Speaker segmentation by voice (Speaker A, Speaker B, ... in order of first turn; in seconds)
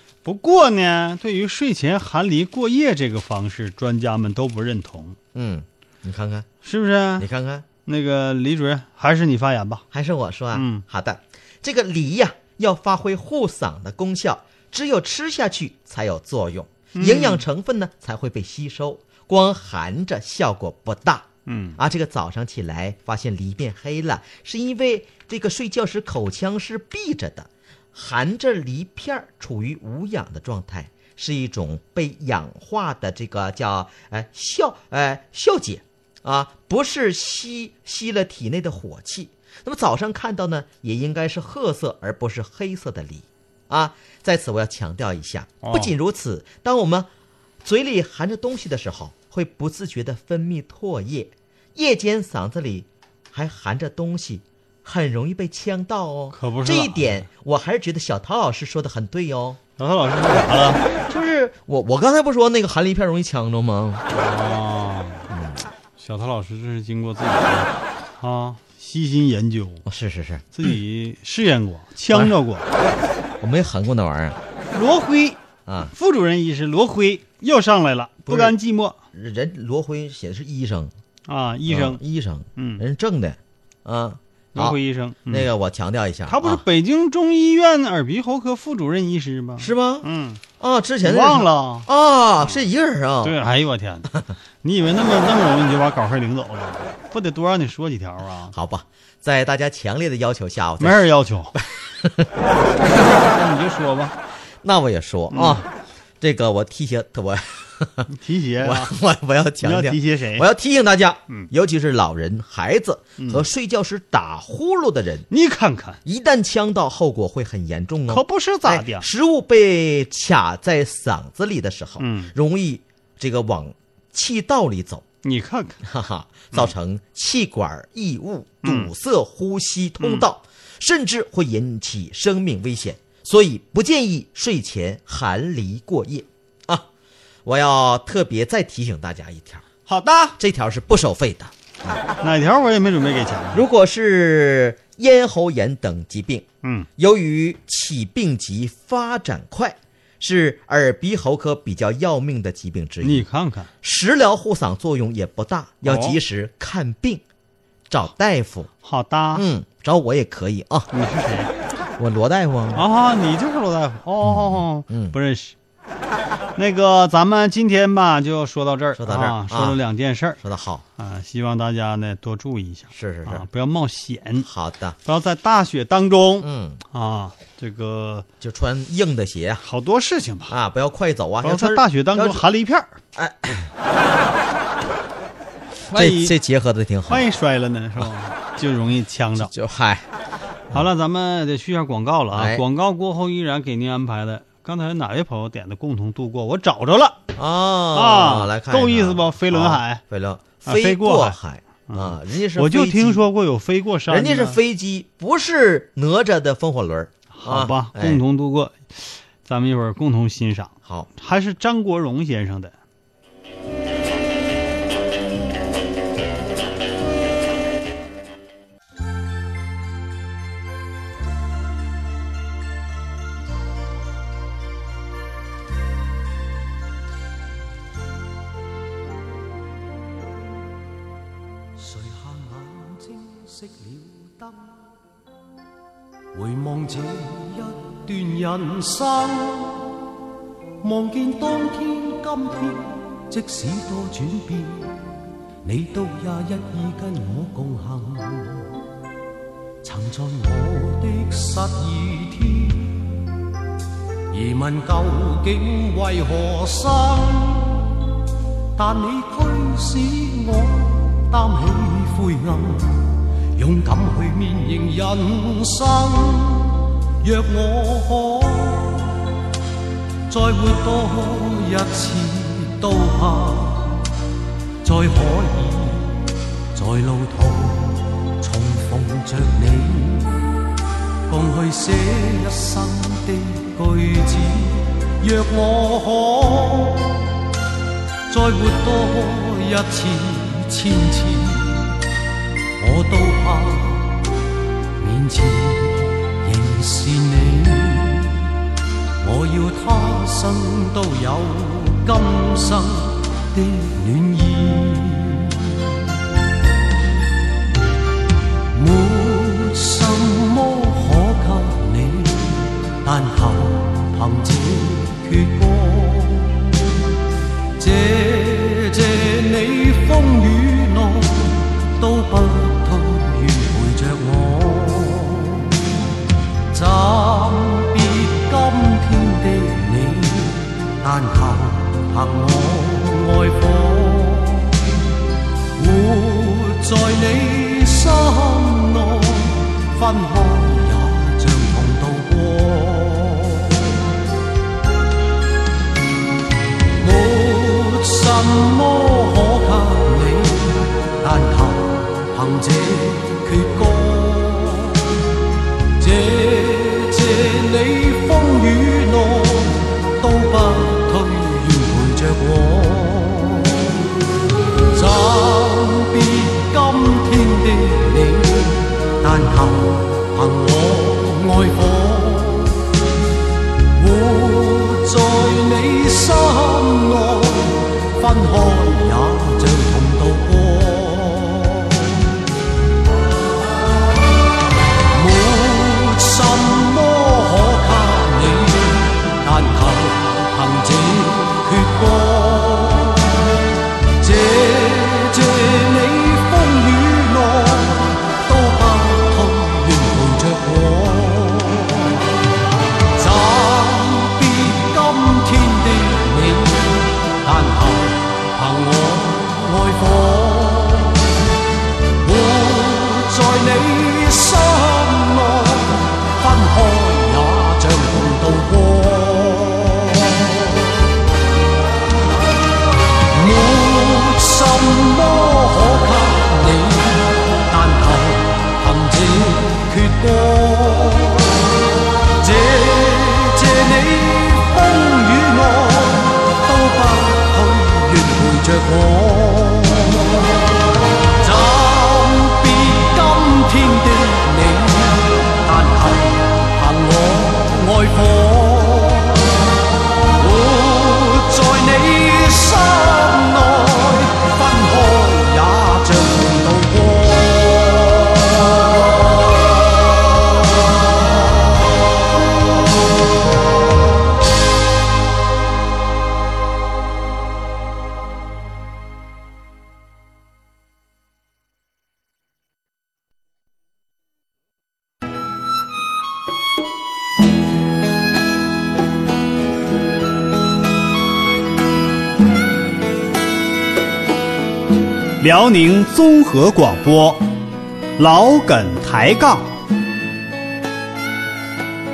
Speaker A: 0.2-5.2, 6.6-7.3, 7.9-9.8, 10.5-10.8, 16.9-17.4, 21.5-21.8, 45.6-45.9, 56.3-57.3, 59.8-60.8, 64.1-65.3, 66.0-69.8, 70.5-72.7, 74.7-79.0, 81.3-82.0, 82.6-82.8, 84.5-85.5, 86.3-90.4, 91.0-91.9, 93.2-94.1, 94.6-98.5, 100.8-101.6, 103.2-104.1, 105.3-105.6, 108.1-108.9, 109.6-110.5, 113.2-113.5, 115.3-116.0, 118.1-119.1, 122.0-122.3, 125.2-125.8, 128.6-128.9, 130.0-130.3, 139.9-140.4, 142.2-143.7, 146.6-146.9, 153.0-153.7, 155.8-156.2, 158.8-159.4, 160.9-161.5, 162.7-165.6, 166.6-170.4, 171.0-174.5, 175.1-178.3, 179.6-180.5, 181.4-182.9, 185.9-186.4, 187.1-189.5, 190.7-197.2, 197.9-200.0, 200.7-204.6, 207.3-212.7, 485.4-487.5, 488.2-489.7
Speaker B: 5.3-6.5, 7.2-7.7, 9.9-47.1, 47.6-59.6, 60.9-64.0, 65.3-65.7, 69.9-70.5, 73.4-74.4, 75.7-75.9, 78.3-78.6, 79.1-80.9, 81.7-86.6, 89.6-90.1, 90.6-93.4, 98.5-102.3, 104.6-105.7, 106.2-115.3, 116.0-125.0, 125.8-136.9, 137.4-139.7, 140.4-142.0, 143.5-146.5, 147.0-153.3, 153.8-157.2, 157.9-158.7, 159.3-160.9, 162.0-162.8, 164.2-165.2, 169.0-169.8, 170.4-170.8, 172.9-173.5, 174.4-175.0, 176.4-176.8, 178.4-179.6, 180.5-182.5, 183.2-183.7, 185.9-187.3, 189.4-190.1, 192.3-192.6, 197.4-203.2, 204.1-208.2
Speaker C: 231.8-234.8, 236.3-240.1, 240.8-245.1, 245.6-248.8, 249.8-253.2, 254.3-258.0, 258.8-269.2, 270.3-274.1, 274.8-280.5, 281.3-287.3, 288.3-292.0, 292.8-294.3, 295.0-298.5, 299.2-306.0, 308.7-316.8, 317.8-325.8, 326.7-335.0, 335.8-344.1, 347.0-355.1, 356.0-364.0, 364.9-372.9, 373.9-382.2, 385.1-393.4, 394.2-402.2, 403.1-411.2, 412.2-420.8, 423.3-431.7, 432.4-440.6, 441.4-449.6, 450.4-458.6